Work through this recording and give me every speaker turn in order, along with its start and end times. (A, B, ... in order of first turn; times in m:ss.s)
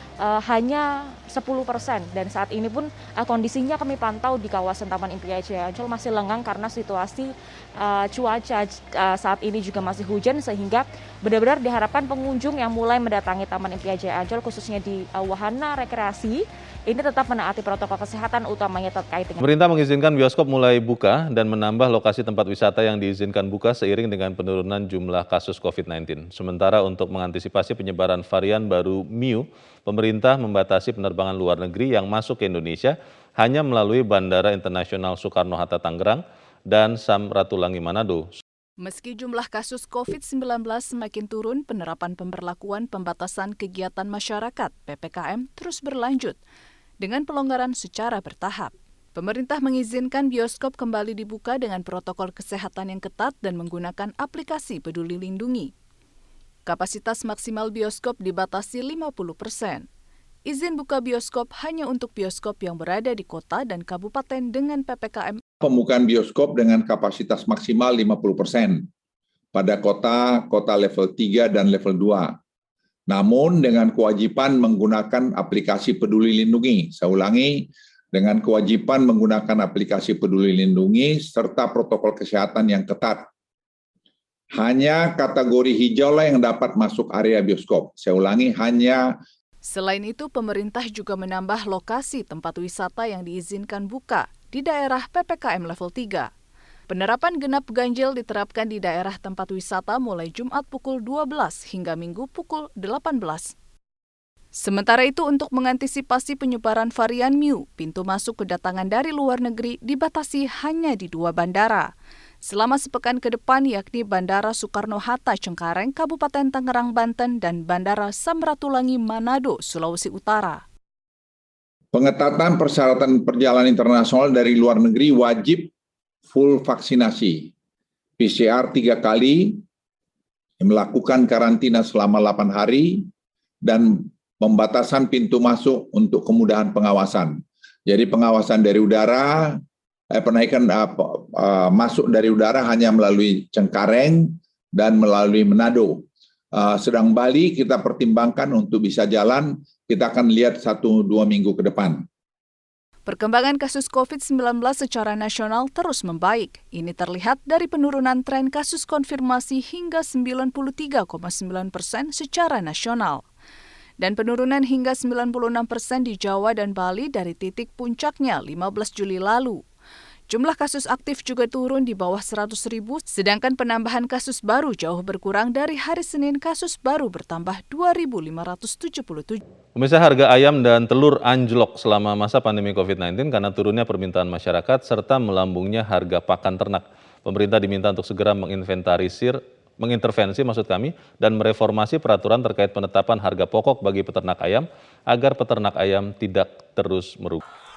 0:00.2-0:19.5 A
0:19.4-0:38.3 B
0:38.8-0:46.4 C
0:47.0-0:55.7 C
0:56.6-0:59.8 C
1:00.5-1:05.4 C
1:05.6-1:08.8 D
1:09.5-1:12.4 D
1:13.1-1:23.2 D
1:24.6-1:29.1 D
1:29.6-1:36.3 C
1:36.9-1:43.5 C
1:44.6-1:51.9 C
1:52.4-2:00.6 C
2:01.9-2:05.7 D
2:06.3-2:07.5 D
2:08.2-2:09.6 D
2:10.6-2:13.0 D
2:13.6-2:19.6 D
2:20.1-2:32.0 D
2:33.0-2:43.2 C
2:44.0-2:49.6 C
2:50.3-2:59.4 C
2:59.8-3:17.4 B